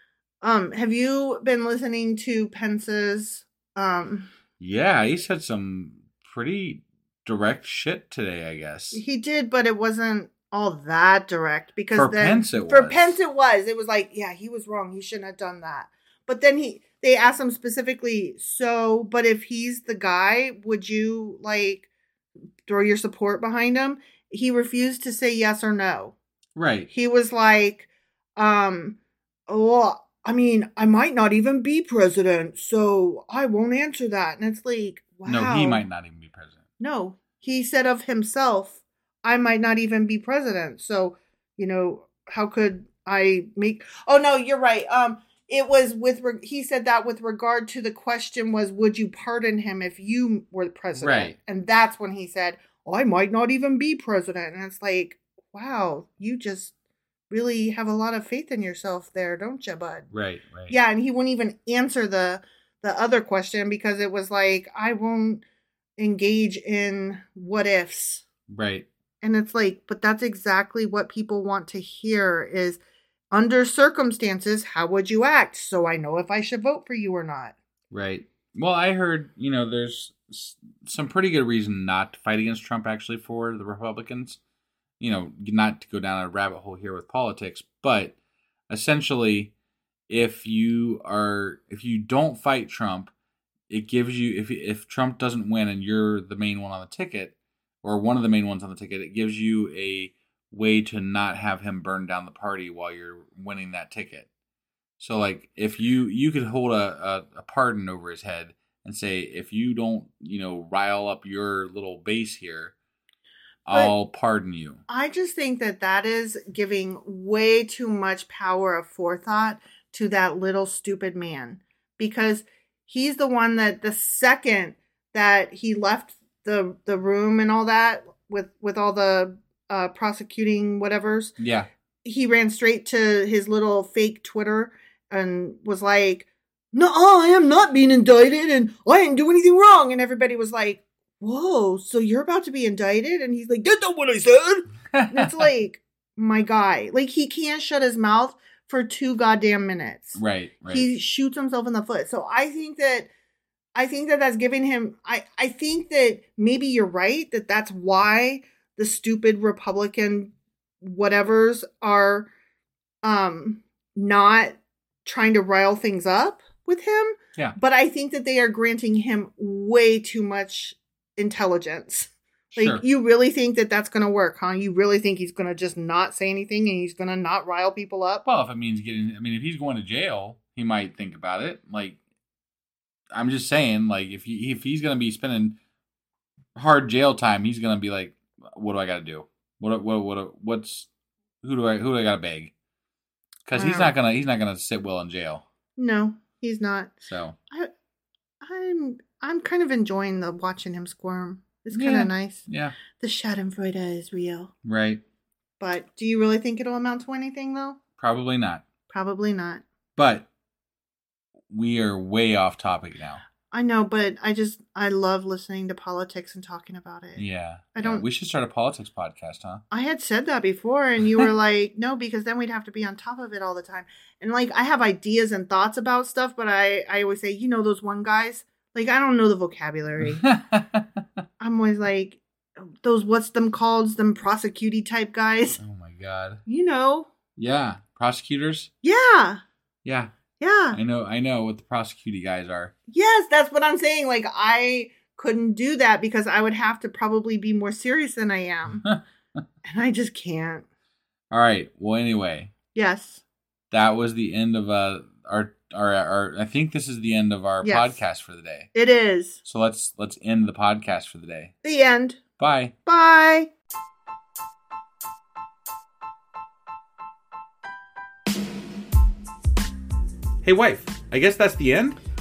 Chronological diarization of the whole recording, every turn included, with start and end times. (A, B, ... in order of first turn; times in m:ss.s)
0:00.4-0:04.3 A
0:04.6-0:09.0 B
0:08.9-0:21.9 A
0:11.9-0:13.2 B
0:22.6-0:26.1 A
0:26.6-0:26.9 B
0:26.9-0:29.0 A
0:29.5-0:35.9 A
0:35.3-0:36.6 B
0:36.8-0:56.7 A
0:51.0-0:51.4 B
0:57.3-1:00.1 A
1:00.1-1:00.8 B
1:00.7-1:05.4 A
1:06.0-1:08.2 A
1:08.5-1:08.9 B
1:09.2-1:12.8 A
1:13.3-1:17.6 A
1:17.9-1:24.4 B
1:25.0-1:28.1 B
1:28.7-1:29.5 B
1:30.1-1:33.1 B
1:33.7-1:44.3 B
1:45.0-1:52.7 B
1:53.6-1:54.8 B
1:54.9-2:11.4 A
2:11.4-2:11.7 B
2:12.0-2:33.1 A
2:24.9-2:25.5 B
2:30.2-2:30.9 B
2:33.8-2:42.3 A
2:43.0-2:58.2 A
2:52.5-2:52.8 B
2:58.2-3:02.0 B
3:03.1-3:05.6 B
3:06.6-3:10.9 B
3:11.4-3:12.5 B
3:13.5-3:15.4 B
3:13.6-3:13.9 A
3:15.8-3:16.9 A
3:17.0-3:17.4 B
3:18.4-3:22.4 A
3:21.7-3:22.8 B
3:23.0-3:24.5 A
3:24.6-3:25.0 B
3:25.6-3:27.8 A
3:28.0-3:28.6 B
3:28.9-3:29.6 A
3:30.0-3:30.3 B
3:31.5-3:33.2 B
3:33.5-3:37.2 A
3:37.2-3:39.6 B
3:37.8-3:38.1 A
3:39.7-3:50.2 A
3:50.0-3:51.0 B
3:51.4-3:55.6 A
3:55.6-3:56.4 B
3:56.5-3:57.1 A
3:57.4-3:58.7 B
3:58.8-3:59.4 A
3:59.8-4:00.1 B
4:00.4-4:00.8 A
4:00.7-4:02.7 B
4:02.9-4:08.9 A
4:08.8-4:09.4 B
4:09.6-4:10.6 A
4:11.3-4:12.5 B
4:12.7-4:13.2 A
4:13.7-4:18.7 B
4:17.6-4:18.0 A
4:18.7-4:19.4 A
4:19.4-4:21.5 B
4:21.6-4:22.2 A
4:22.4-4:22.7 B
4:22.9-4:23.5 A
4:30.4-4:32.0 B